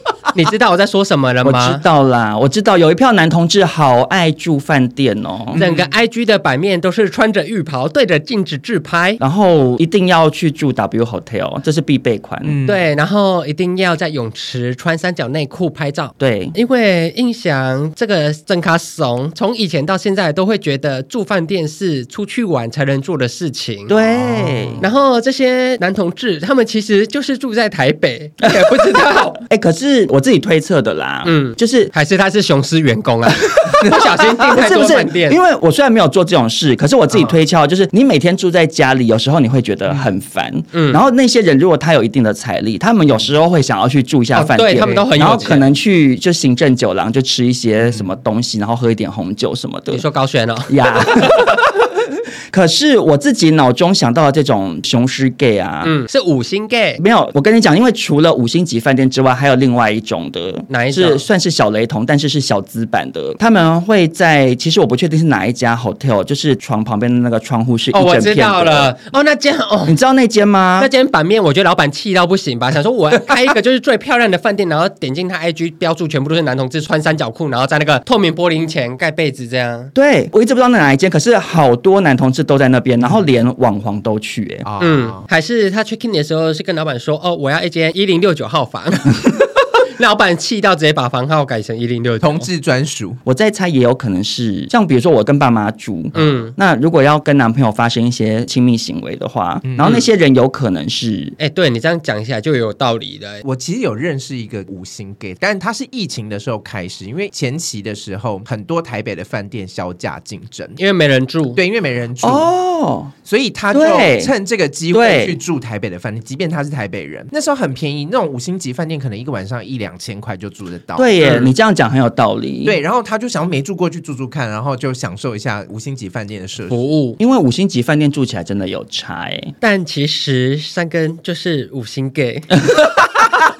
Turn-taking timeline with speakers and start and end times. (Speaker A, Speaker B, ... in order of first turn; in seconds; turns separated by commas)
Speaker A: 0.3-1.8, Speaker B: 1.4-5.6, Speaker C: 5.5-5.9, Speaker A: 5.5-9.2, Speaker B: 9.2-12.5, Speaker C: 12.4-12.8, Speaker A: 12.7-23.9, Speaker B: 16.2-16.5, Speaker B: 23.9-24.9, Speaker C: 24.0-24.9, Speaker A: 24.8-29.4, Speaker B: 28.4-31.9, Speaker A: 31.2-35.4, Speaker B: 33.6-50.0, Speaker A: 40.7-41.0, Speaker A: 44.3-45.7, Speaker C: 44.8-45.5, Speaker A: 49.9-51.6, Speaker B: 50.7-51.9, Speaker B: 52.5-55.9, Speaker A: 55.8-57.0, Speaker B: 57.0-68.9, Speaker A: 60.7-61.2, Speaker A: 67.9-70.0, Speaker B: 69.8-70.9, Speaker A: 70.8-79.9, Speaker B: 79.9-84.7, Speaker C: 84.6-85.2, Speaker A: 84.8-92.5, Speaker C: 92.2-93.2, Speaker B: 93.2-101.3, Speaker A: 96.1-96.5, Speaker C: 99.6-100.0, Speaker A: 101.4-103.4, Speaker C: 103.4-110.8, Speaker A: 110.8-111.6, Speaker C: 111.5-112.5, Speaker B: 112.2-113.1, Speaker C: 113.2-121.5, Speaker B: 113.7-114.3, Speaker B: 114.9-115.4, Speaker B: 121.0-122.8, Speaker A: 121.2-121.5, Speaker C: 122.6-126.8, Speaker A: 126.7-127.2, Speaker B: 127.2-129.5, Speaker A: 129.6-132.6, Speaker B: 132.7-133.3